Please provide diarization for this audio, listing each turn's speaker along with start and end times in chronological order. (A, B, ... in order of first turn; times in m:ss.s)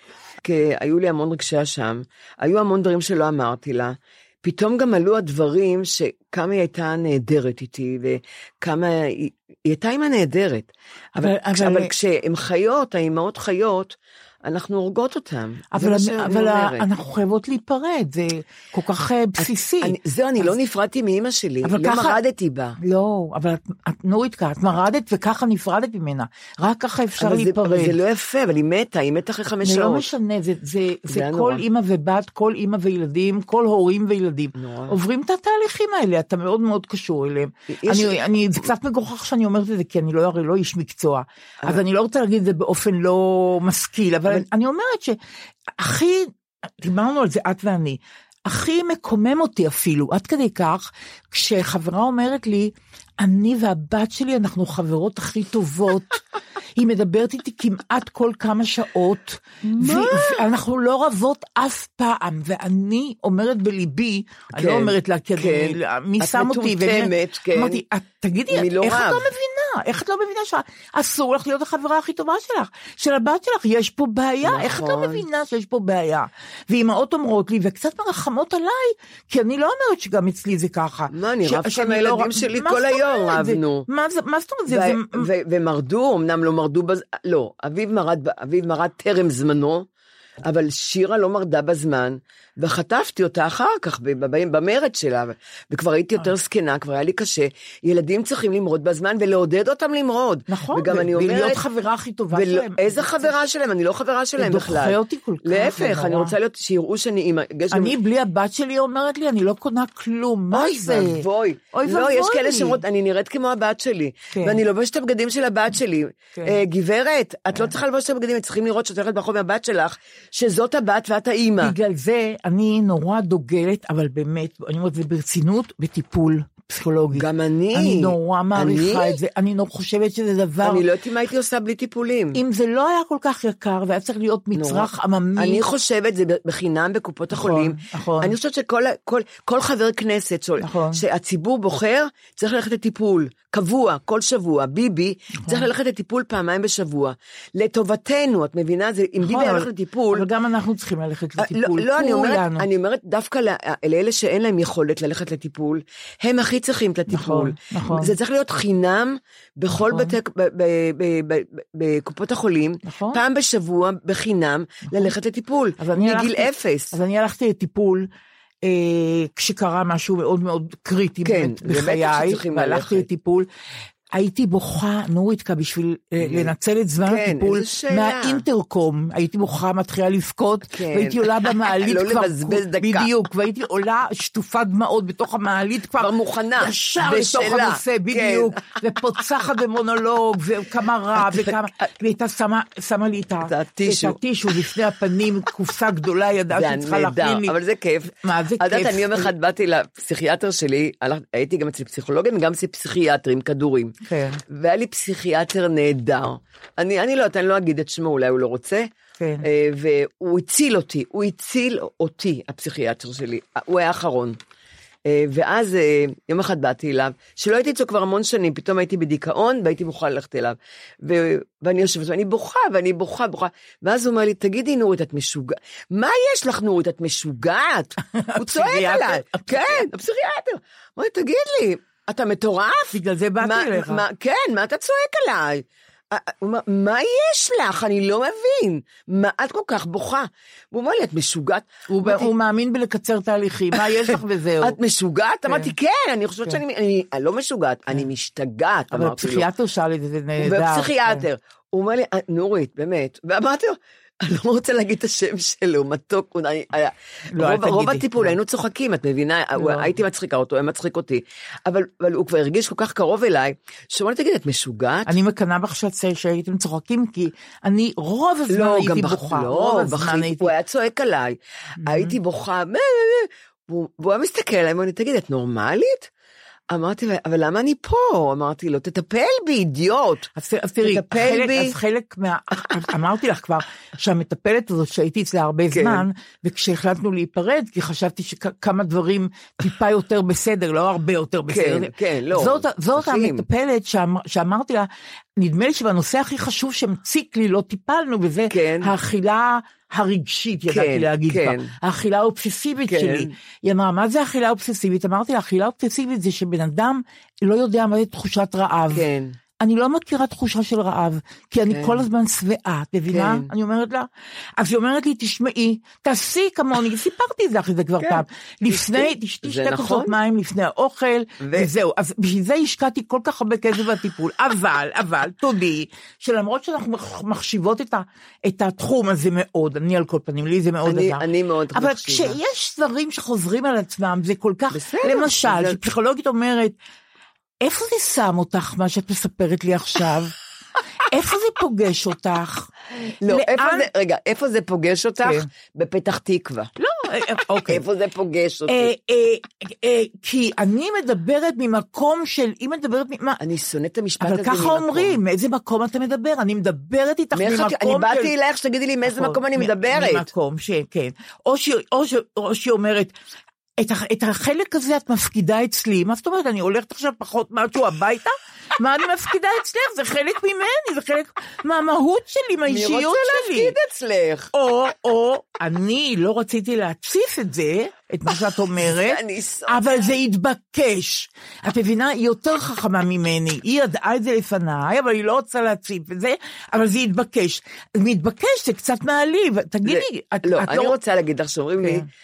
0:00.4-0:16.8 A
0:11.2-0:11.9 B
0:15.7-0:20.5 B
0:19.4-0:22.8 A
0:21.6-0:22.2 B
0:22.8-0:28.0 B
0:27.2-0:30.1 A
0:29.6-0:45.2 B
0:31.1-0:31.6 A
0:34.6-0:35.0 A
0:37.7-0:38.2 A
0:45.8-0:56.2 B
0:56.8-1:25.3 B
0:59.7-1:00.4 A
1:04.5-1:07.8 A
1:08.5-1:09.3 A
1:14.4-1:15.2 A
1:21.1-1:23.9 A
1:24.7-1:29.8 A
1:30.4-1:41.6 A
1:40.5-1:43.4 B
1:42.3-1:48.0 A
1:44.4-1:46.3 B
1:47.7-1:52.8 B
1:50.5-2:01.7 A
1:54.3-1:54.6 B
1:56.4-1:56.6 B
2:01.6-2:10.8 B
2:07.1-2:09.2 A
2:10.6-2:12.4 A
2:12.3-2:15.6 B
2:14.5-2:30.3 A
2:17.3-2:18.3 B
2:20.6-2:21.0 B
2:29.2-2:32.6 B
2:31.4-2:46.9 A
2:37.1-2:38.1 B
2:39.8-2:40.1 B
2:42.8-2:43.2 B
2:45.8-2:48.1 B
2:48.6-2:53.5 B
2:51.2-2:53.1 A
2:54.1-3:17.5 B
2:56.2-2:56.5 A
2:57.0-2:58.4 A
3:00.7-3:03.1 A
3:06.0-3:08.8 A
3:11.2-3:11.5 A
3:13.4-3:14.2 A
3:16.5-3:23.9 A
3:18.1-3:19.3 B
3:24.0-3:24.4 B
3:24.5-3:28.9 A
3:29.2-3:29.4 B
3:29.4-3:34.4 A
3:35.0-4:02.3 A
3:48.1-3:49.9 B
3:52.9-3:54.0 B
4:01.9-4:04.8 B
4:03.8-4:09.5 A
4:08.9-4:11.2 B
4:10.4-4:25.1 A
4:17.3-4:18.4 B
4:19.6-4:19.9 B
4:25.1-4:30.5 B
4:28.5-4:36.1 A
4:31.8-4:32.1 B
4:36.7-4:40.3 A
4:40.4-5:09.0 B
4:40.8-4:41.8 A
4:45.7-4:46.0 A
4:51.5-4:53.4 A
4:58.5-4:58.9 A
5:00.7-5:01.7 A
5:02.8-5:03.3 A
5:08.9-5:09.4 A
5:09.6-5:36.8 B
5:11.7-5:12.0 A
5:13.1-5:13.5 A
5:18.0-5:20.2 A
5:21.4-5:21.7 A
5:30.8-5:32.4 A
5:34.7-5:35.8 A
5:37.6-5:40.3 B
5:41.1-5:42.7 B
5:43.2-5:46.7 A
5:43.2-5:43.9 B
5:46.8-5:47.8 B
5:47.7-5:48.9 A
5:48.7-5:53.4 B
5:53.4-5:55.2 A
5:54.2-5:58.3 B
5:57.3-6:00.3 A
5:59.1-6:03.1 B
6:03.8-6:13.7 B
6:12.7-6:14.5 A
6:14.5-6:31.0 B
6:18.8-6:19.8 A
6:29.8-6:32.0 A
6:31.8-6:32.1 B